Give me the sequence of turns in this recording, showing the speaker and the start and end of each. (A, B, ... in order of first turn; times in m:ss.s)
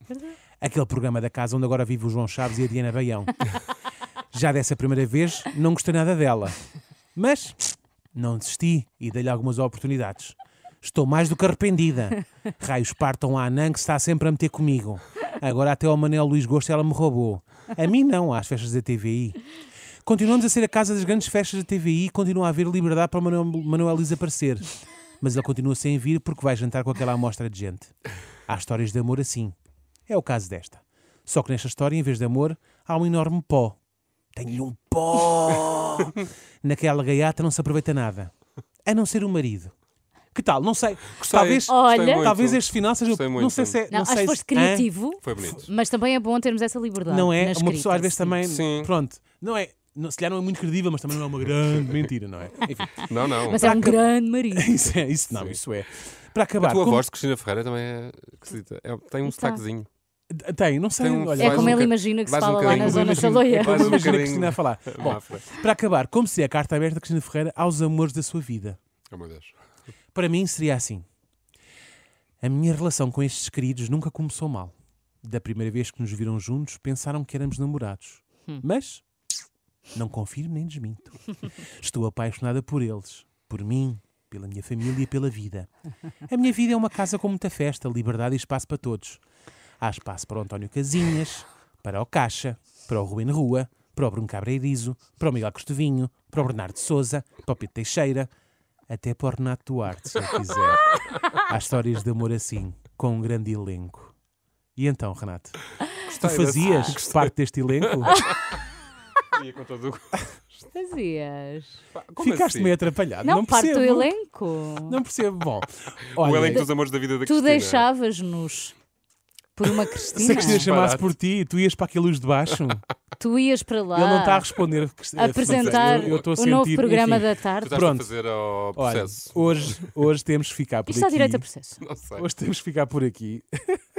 0:00.6-0:03.4 A
0:04.3-0:06.6 A
0:07.1-0:19.4 A
0:20.0-0:24.6 A
0:25.2-0:27.9 A
0:28.5-0:29.5 A
0:30.1-0:33.8 A
0:34.3-0:38.3 A
0:38.8-0:39.7 A
0:40.3-0:45.6 A
0:41.2-0:43.8 B
0:41.6-0:42.3 C
0:43.9-0:48.4 C
0:45.2-0:45.7 B
0:47.1-0:53.0 A
0:48.4-0:48.9 B
0:53.0-0:53.7 B
0:53.4-0:54.8 C
0:53.5-0:57.0 A
0:55.3-0:55.6 B
0:56.6-0:59.9 B
0:59.2-0:59.6 C
1:00.3-1:01.9 A
1:01.0-1:05.5 B
1:01.4-1:04.1 C
1:02.6-1:08.8 A
1:09.1-1:09.5 B
1:10.1-1:11.0 A
1:12.4-1:19.0 A
1:19.9-1:25.7 A
1:26.3-1:29.2 A
1:29.8-1:38.3 A
1:38.9-1:44.1 A
1:44.8-1:45.6 A
1:46.0-1:47.3 B
1:46.2-1:48.1 A
1:47.9-1:48.6 B
1:49.3-1:50.3 B
1:50.7-1:51.8 C
1:51.9-1:52.8 B
1:52.2-1:54.1 A
1:53.2-1:55.0 C
1:54.9-1:56.7 A
1:56.1-1:57.9 B
1:57.2-1:58.7 C
1:59.6-2:00.7 C
2:00.1-2:02.8 A
2:00.2-2:01.1 B
2:03.2-2:04.5 C
2:03.9-2:08.1 A
2:05.2-2:07.7 C
2:05.5-2:06.3 B
2:07.6-2:09.8 B
2:08.7-2:11.4 A
2:10.9-2:11.8 C
2:11.8-2:12.2 B
2:12.1-2:13.8 A